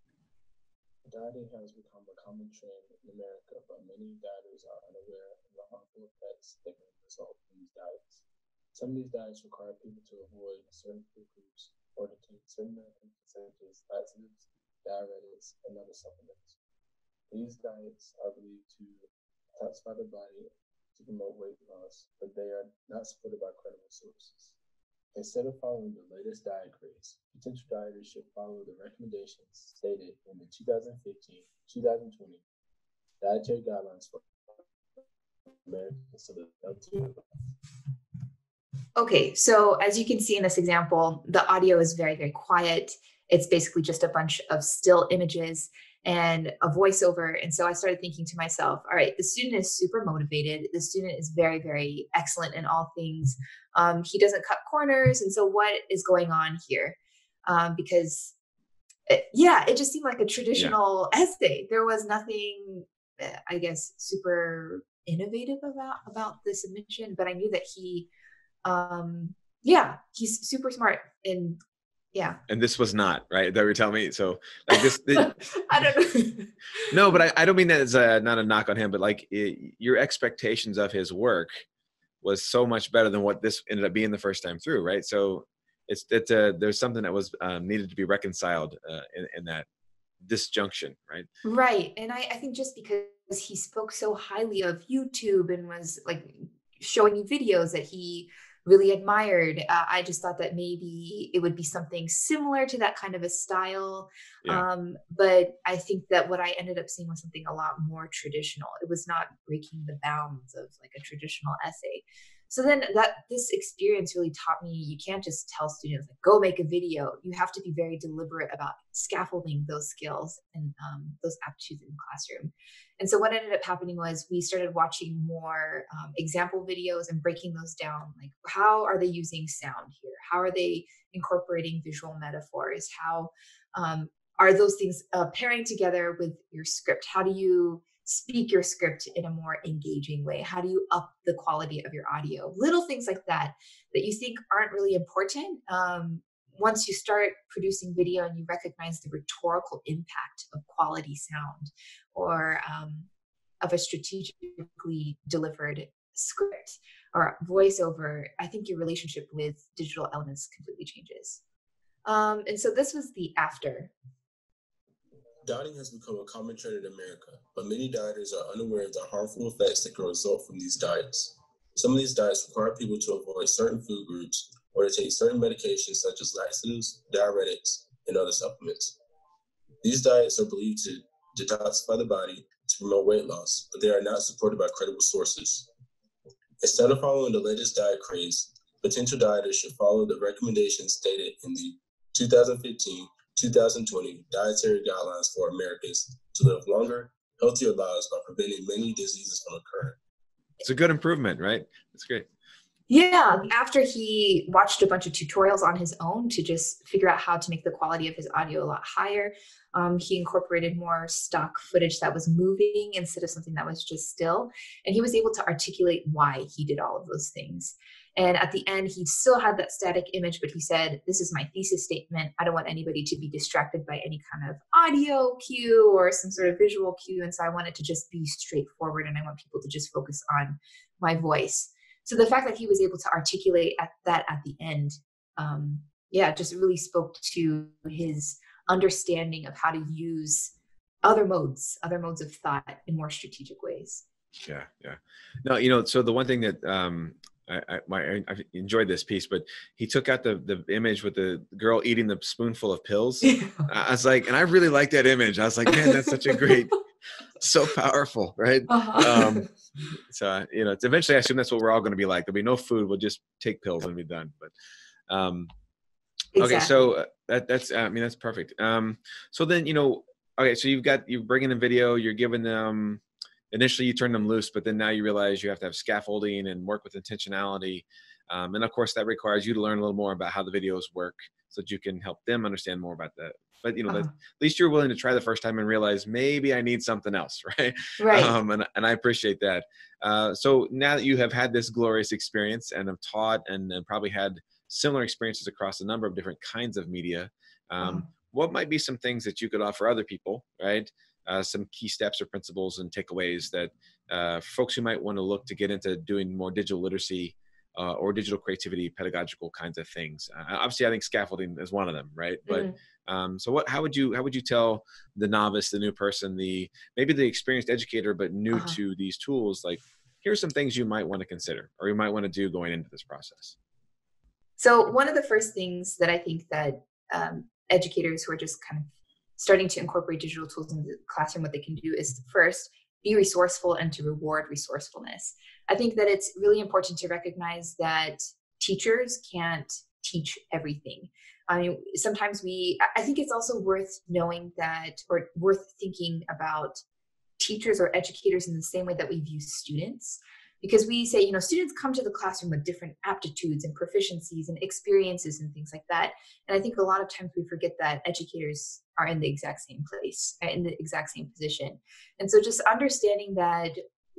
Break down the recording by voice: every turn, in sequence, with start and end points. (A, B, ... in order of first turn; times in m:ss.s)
0:01.0-0:16.6 A
0:17.3-0:24.6 A
0:25.2-0:32.4 A
0:33.2-0:34.6 A
0:35.6-0:37.2 A
0:39.0-0:57.0 B
0:57.5-0:58.3 B
0:59.1-1:08.1 B
1:08.6-1:11.6 B
1:12.1-1:12.4 B
1:12.5-1:15.4 C
1:14.7-1:16.9 B
1:16.9-1:21.6 C
1:22.2-1:29.7 C
1:30.2-1:31.3 C
1:31.4-2:33.1 B
2:33.6-2:41.4 B
2:42.1-2:43.9 B
2:45.4-2:59.0 A
2:59.8-3:05.7 A
3:06.6-3:20.0 A
3:20.6-3:22.3 C
3:22.9-4:04.0 B
4:04.4-4:16.8 C
4:13.2-4:13.7 B
4:15.7-4:16.5 B
4:17.4-4:19.5 C
4:18.7-4:19.5 B
4:20.1-4:24.5 C
4:25.1-4:25.5 C
4:26.4-4:26.9 B
4:26.4-5:23.6 C
4:48.0-4:48.3 B
4:57.8-4:58.1 B
5:12.5-5:12.8 B
5:18.5-5:18.8 B
5:24.6-5:46.8 B
5:47.4-6:03.8 B